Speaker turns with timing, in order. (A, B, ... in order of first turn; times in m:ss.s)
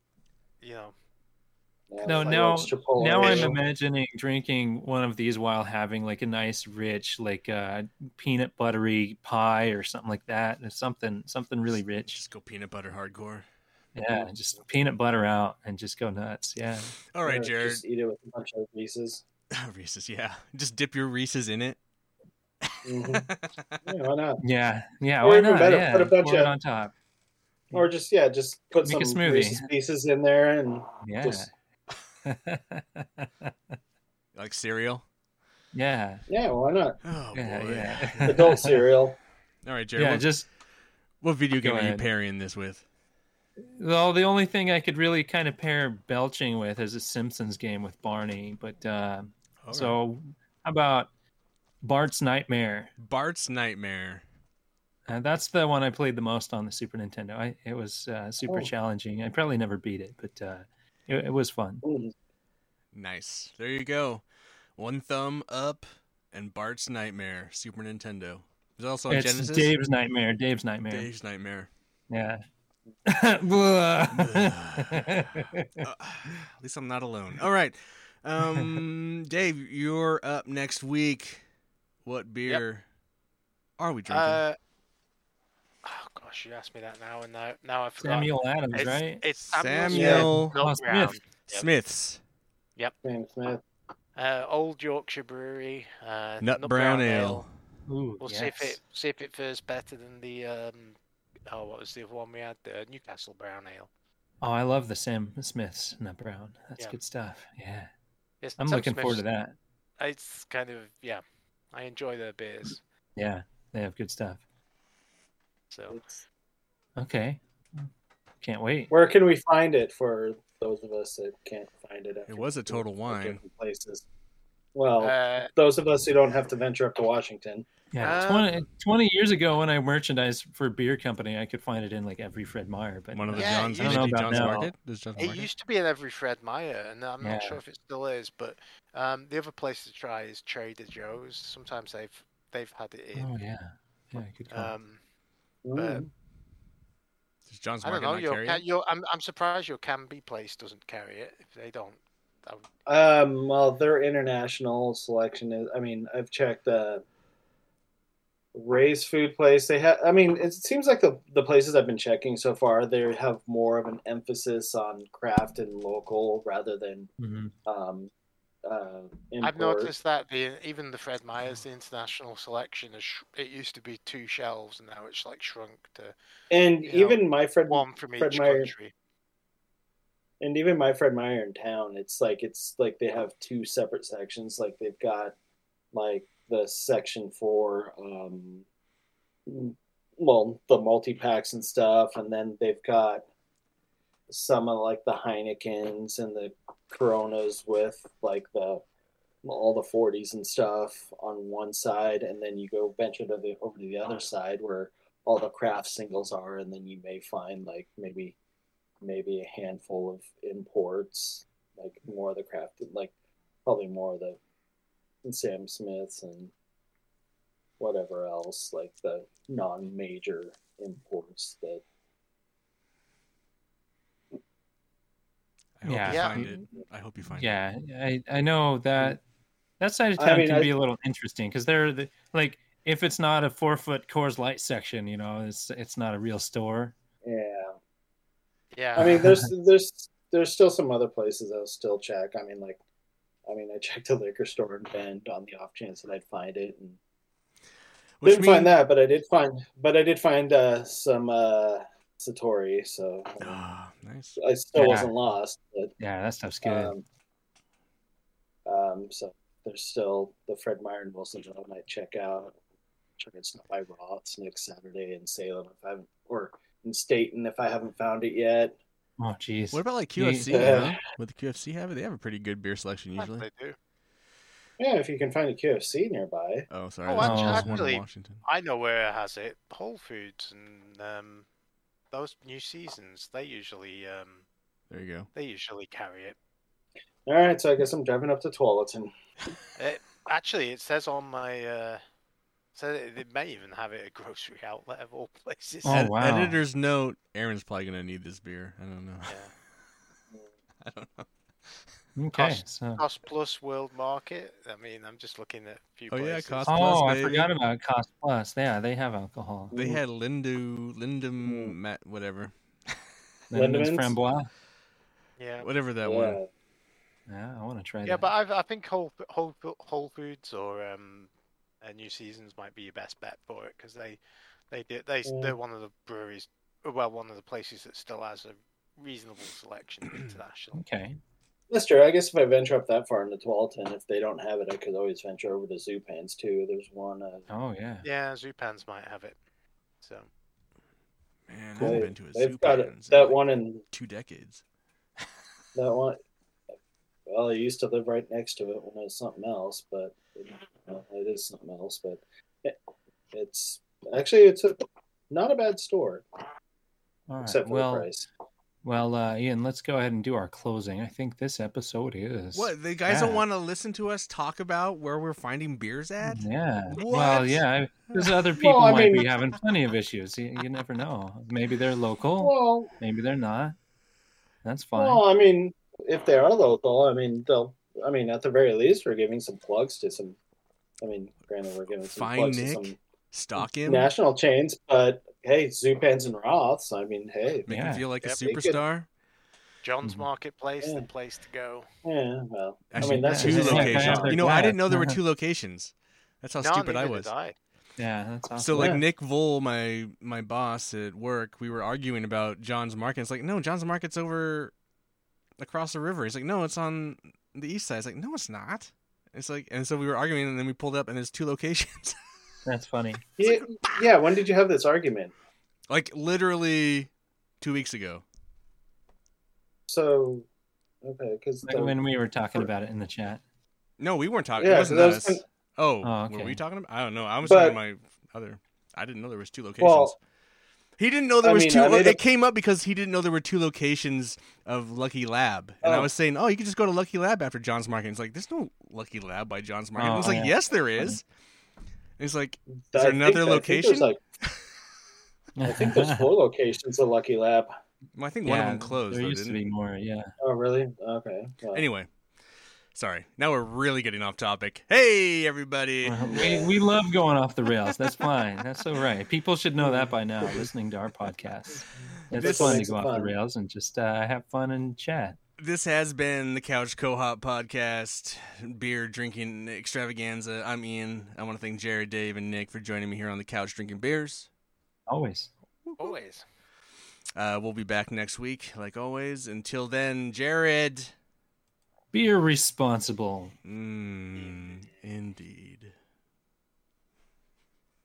0:00.6-0:00.9 A
0:01.9-0:03.6 B
0:02.0-0:12.2 C
0:03.2-0:03.4 A
0:12.0-0:13.4 D
0:13.9-0:16.9 C
0:17.1-0:17.8 D
0:17.2-0:19.2 B
0:19.5-0:21.8 D
0:22.6-0:23.8 D
0:22.8-0:23.3 B
0:23.8-0:24.4 B
0:24.4-0:26.9 C
0:25.2-0:26.5 B
0:27.7-0:31.5 B
0:28.8-0:29.7 C
0:31.0-0:31.5 C
0:32.2-0:33.8 C
0:34.3-0:35.0 D
0:35.7-0:36.2 C
0:36.3-0:37.0 B
0:37.0-0:38.6 D
0:37.3-0:38.8 C
0:38.2-0:39.2 B
0:39.6-0:40.3 D
0:40.0-0:40.5 C
0:41.2-0:42.8 D
0:41.6-0:42.1 C
0:43.6-0:51.1 C
0:49.6-0:50.0 D
0:51.8-0:52.9 C
0:53.0-0:54.2 D
0:55.1-1:01.8 C
0:58.4-0:58.7 B
1:01.8-1:02.1 B
1:02.9-1:04.2 D
1:04.8-1:09.7 D
1:09.1-1:11.1 C
1:10.9-1:11.7 D
1:12.1-1:12.4 C
1:13.0-1:15.9 C
1:14.1-1:21.4 D
1:22.0-1:22.8 D
1:23.8-1:24.4 D
1:24.1-1:24.6 A
1:25.8-1:31.7 A
1:28.0-1:29.2 C
1:29.5-1:30.5 D
1:29.9-1:30.3 B
1:30.0-1:31.2 C
1:31.5-1:32.2 D
1:33.0-1:33.6 B
1:34.2-1:37.4 A
1:36.4-1:37.5 D
1:37.9-1:38.8 C
1:38.2-1:41.0 A
1:41.5-1:43.9 A
1:44.4-1:47.9 C
1:48.4-1:49.2 A
1:48.6-1:49.5 C
1:50.0-1:52.8 A
1:53.2-1:54.4 C
1:55.7-1:56.2 A
1:57.0-1:57.9 C
1:58.4-1:58.9 C
1:58.9-2:04.0 B
2:02.3-2:03.4 D
2:04.7-2:07.6 B
2:05.0-2:05.5 A
2:07.9-2:14.7 C
2:08.0-2:08.6 A
2:13.1-2:15.5 D
2:13.3-2:14.6 A
2:15.2-2:23.3 A
2:17.2-2:17.6 C
2:23.1-2:24.7 C
2:24.5-2:25.0 A
2:25.6-2:26.1 B
2:25.7-2:26.1 A
2:27.5-2:28.6 D
2:27.8-2:32.6 A
2:32.8-2:37.0 B
2:38.5-2:47.1 B
2:47.2-2:47.5 C
2:47.6-2:48.1 B
2:48.6-2:49.9 B
2:49.4-2:56.1 A
2:56.5-2:58.7 B
2:56.8-2:58.9 A
3:00.4-3:05.3 B
3:05.9-3:08.6 B
3:09.5-3:13.2 B
3:14.3-3:18.8 B
3:19.4-3:28.4 B
3:29.0-3:33.1 B
3:33.6-3:34.4 B
3:35.2-3:36.5 B
3:37.8-3:41.8 B
3:45.8-3:47.5 D
3:45.8-3:46.6 C
3:46.1-3:46.5 A
3:47.3-3:49.2 C
3:49.8-3:56.9 C
3:50.2-3:50.7 B
3:57.2-3:57.8 B
3:58.7-3:59.3 A
3:58.9-3:59.5 C
3:59.0-4:02.8 B
4:03.4-4:07.0 B
4:08.2-4:08.8 D
4:08.2-4:13.6 B
4:13.4-4:14.4 D
4:14.4-4:15.9 B
4:14.8-4:15.1 C
4:16.0-4:16.9 C
4:16.6-4:17.0 B
4:18.6-4:22.5 B
4:23.2-4:28.7 B
4:29.2-4:31.0 C
4:29.7-4:33.4 D
4:30.5-4:31.0 B
4:33.2-4:33.8 A
4:34.8-4:36.7 B
4:36.7-4:38.4 D
4:37.0-4:41.4 A
4:37.2-4:37.9 C
4:42.1-4:44.4 A
4:44.9-4:45.3 D
4:45.3-4:46.4 A
4:47.2-4:49.1 B
4:49.8-4:52.0 A
4:52.7-4:56.0 A
4:55.8-4:56.6 C
4:55.8-4:59.4 D
4:59.3-4:59.5 A
5:00.8-5:01.3 D
5:02.2-5:03.0 C
5:02.3-5:07.2 A
5:06.1-5:07.5 D
5:06.6-5:09.7 C
5:09.7-5:10.0 B
5:09.7-5:12.5 D
5:11.4-5:11.7 B
5:13.5-5:14.5 C
5:13.5-5:14.2 B
5:15.4-5:15.7 A
5:15.6-5:16.4 D
5:16.0-5:16.5 B
5:17.3-5:18.3 C
5:18.0-5:21.3 A
5:21.8-5:30.8 A
5:25.2-5:25.5 B
5:30.7-5:31.2 C
5:31.7-5:37.5 B
5:37.5-5:38.0 C
5:38.0-5:39.4 A
5:40.0-5:40.3 A
5:41.5-5:44.6 D
5:41.8-5:42.0 C
5:41.8-5:43.8 B
5:45.7-5:46.2 B
5:47.3-5:52.8 B
5:53.3-5:56.2 B
5:57.3-5:58.1 C
5:57.4-5:58.3 B
5:58.8-6:03.4 C
6:02.5-6:08.3 D
6:06.2-6:13.8 C
6:08.6-6:09.3 B
6:12.4-6:13.0 B
6:14.6-6:15.2 C
6:15.0-6:20.4 B
6:21.0-6:23.0 B
6:22.1-6:24.1 D
6:23.6-6:28.8 B
6:27.6-6:29.1 D
6:27.7-6:28.0 C
6:29.8-6:31.8 A
6:30.8-6:31.1 B
6:32.0-6:34.5 B
6:32.9-6:37.3 D
6:33.0-6:35.2 C
6:36.6-6:37.6 A
6:38.0-6:38.9 C
6:38.6-6:44.7 D
6:38.8-6:39.0 B
6:45.6-6:52.2 D
6:52.6-6:53.2 C
6:53.4-6:54.0 D
6:53.4-6:55.3 B
6:55.9-6:58.2 D
6:59.9-7:00.5 B
7:01.0-7:02.0 B
7:01.6-7:03.4 C
7:04.0-7:10.2 D
7:04.6-7:05.4 B
7:06.0-7:06.6 C
7:07.4-7:07.8 B
7:09.8-7:10.1 B
7:11.0-7:21.2 D
7:11.4-7:12.2 B
7:15.8-7:16.1 B
7:20.0-7:21.2 C
7:22.2-7:24.6 D
7:22.9-7:24.2 B
7:25.6-7:26.3 C
7:25.6-7:27.7 B
7:28.1-7:29.6 D
7:28.4-7:30.3 C
7:30.4-7:31.9 B
7:31.7-7:32.1 D
7:32.9-7:36.4 D
7:36.0-7:45.4 C
7:36.2-7:36.7 B
7:39.8-7:40.7 B
7:42.3-7:42.8 D
7:42.3-7:43.4 B
7:45.6-7:54.5 D
7:55.1-7:55.5 C
7:55.8-7:56.2 D
7:56.0-7:56.4 A
7:57.3-8:01.1 D
8:02.1-8:03.5 C
8:03.6-8:05.9 D
8:04.3-8:04.9 A